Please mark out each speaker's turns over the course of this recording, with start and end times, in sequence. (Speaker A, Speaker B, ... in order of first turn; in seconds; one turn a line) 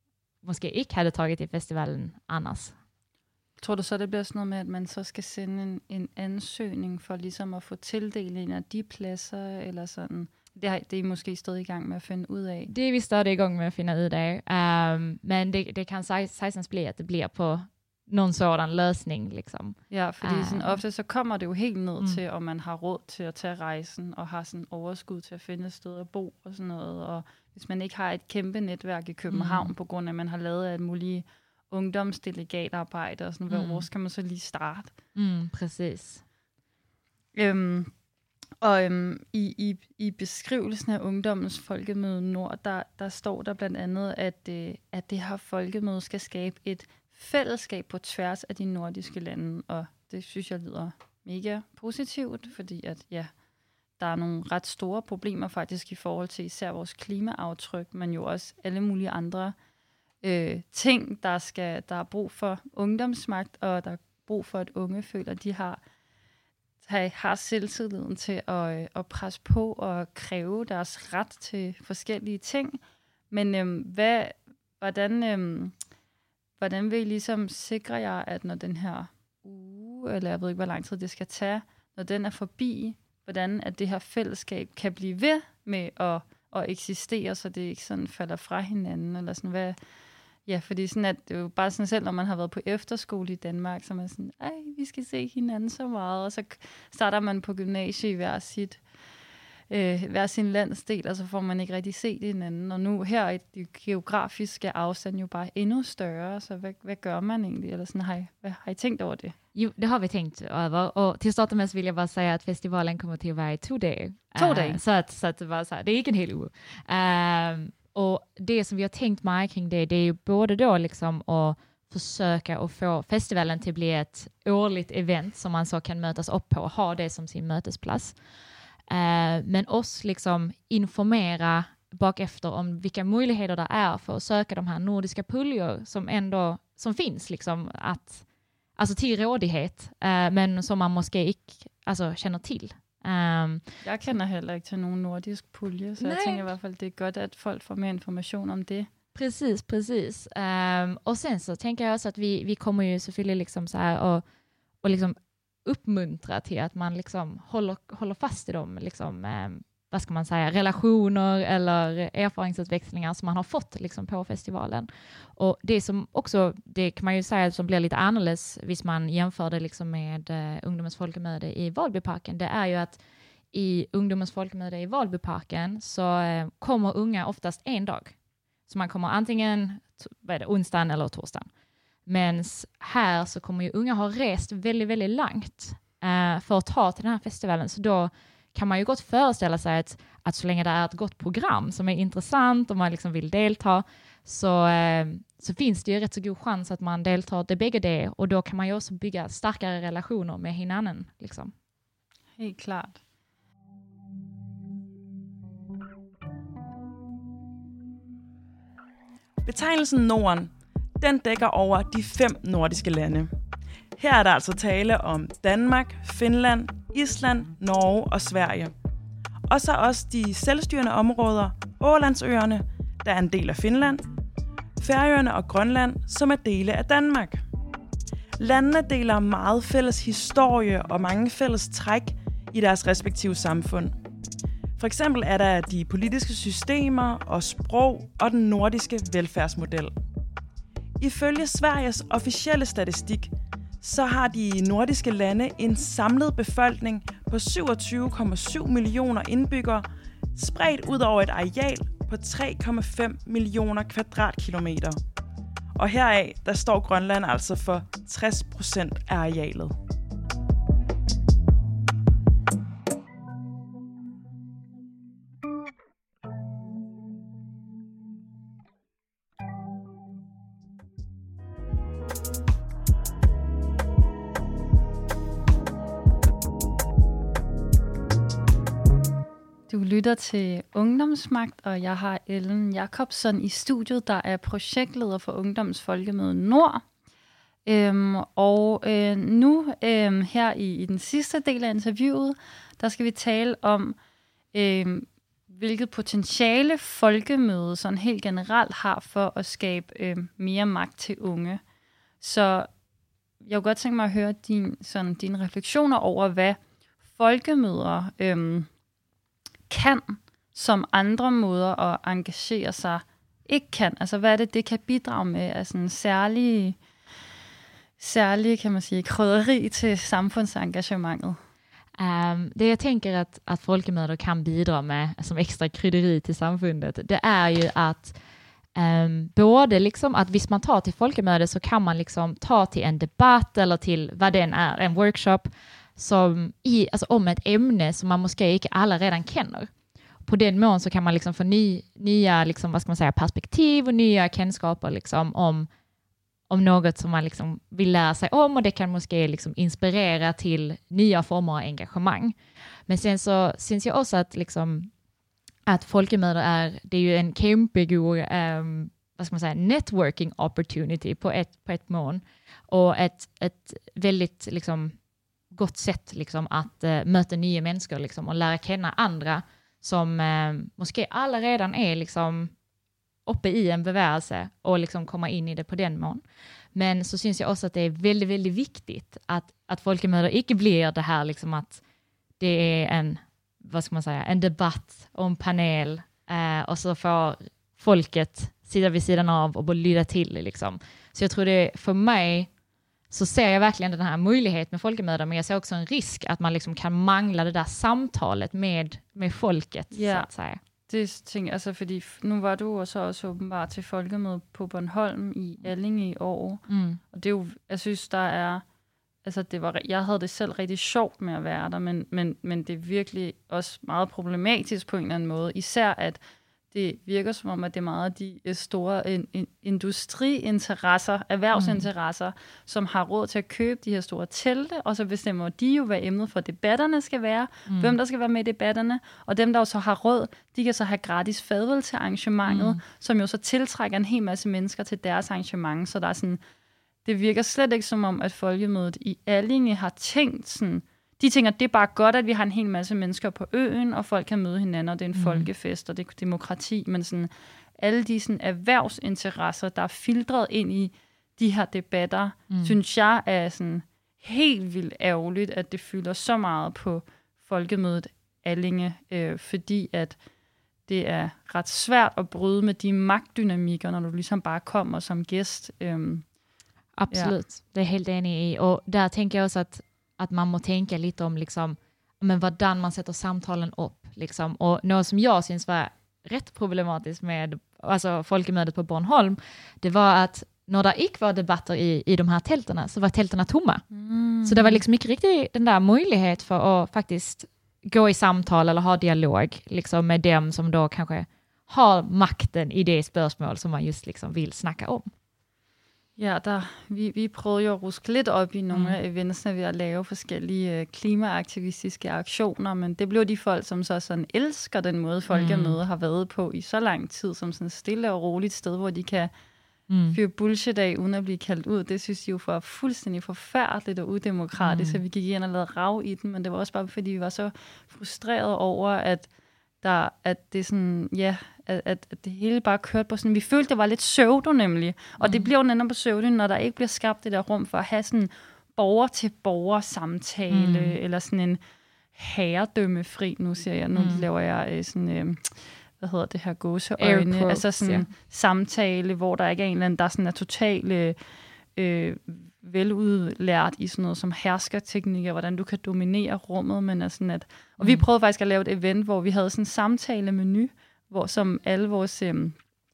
Speaker A: 0.4-2.7
Speaker B: 3.6-12.7
Speaker A: 12.7-20.8
Speaker B: 19.9-34.9
Speaker A: 29.3-29.7
Speaker A: 33.5-33.9
Speaker A: 35.1-36.2
Speaker B: 37.4-37.9
Speaker B: 38.6-53.3
Speaker B: 54.0-59.5
Speaker B: 60.2-65.8
Speaker B: 66.8-72.8
Speaker B: 73.3-75.8
Speaker B: 76.6-89.8
Speaker B: 90.5-98.8
Speaker B: 99.7-109.3
Speaker A: 109.5-128.2
Speaker B: 114.4-114.8
Speaker A: 128.9-138.2
Speaker A: 138.8-143.7
Speaker B: 143.8-148.9
Speaker A: 146.0-146.5
Speaker A: 149.2-154.2
Speaker A: 154.8-173.0
Speaker A: 173.5-178.2
Speaker A: 178.7-181.5
Speaker A: 182.1-201.5
Speaker B: 202.4-203.0
Speaker C: 209.4-213.3
Speaker C: 214.0-218.7
Speaker C: 219.5-224.0
Speaker C: 224.8-227.4
Speaker C: 228.4-233.9
Speaker C: 234.8-239.9
Speaker C: 241.0-255.0
Speaker C: 255.8-259.8
Speaker B: 279.7-286.8
Speaker B: 287.7-294.0
Speaker B: 294.5-301.6
Speaker B: 302.2-302.7
Speaker B: 303.4-306.6
Speaker B: 307.1-308.7
Speaker B: 309.7-316.8
Speaker B: 318.0-321.4
Speaker A: 322.0-328.1
Speaker A: 328.8-339.7
Speaker A: 340.2-345.7
Speaker A: 346.5-352.4
Speaker A: 352.9-354.9
Speaker A: 355.7-365.0
Speaker A: 365.5-372.5
Speaker A: 373.3-376.2
Speaker A: 376.8-381.8
Speaker A: 382.4-392.5
Speaker A: 393.1-400.6
Speaker B: 399.9-400.3
Speaker B: 400.9-408.6
Speaker A: 406.7-407.0
Speaker B: 409.2-416.2
Speaker B: 416.7-436.4
Speaker A: 421.5-421.9
Speaker A: 427.7-427.9
Speaker A: 432.5-432.8
Speaker B: 437.1-460.2
Speaker A: 445.1-445.5
Speaker A: 452.5-452.8
Speaker B: 460.9-466.3
Speaker A: 467.0-483.9
Speaker B: 467.1-467.4
Speaker B: 483.9-484.8
Speaker A: 484.4-495.1
Speaker B: 496.2-509.3
Speaker A: 498.7-499.0
Speaker A: 505.3-505.8
Speaker A: 509.9-510.2
Speaker B: 510.1-519.3
Speaker A: 514.6-515.0
Speaker B: 519.8-531.6
Speaker A: 525.2-525.5
Speaker A: 530.5-531.0
Speaker B: 532.1-541.2
Speaker A: 534.0-534.3
Speaker A: 537.0-538.1
Speaker B: 541.8-552.6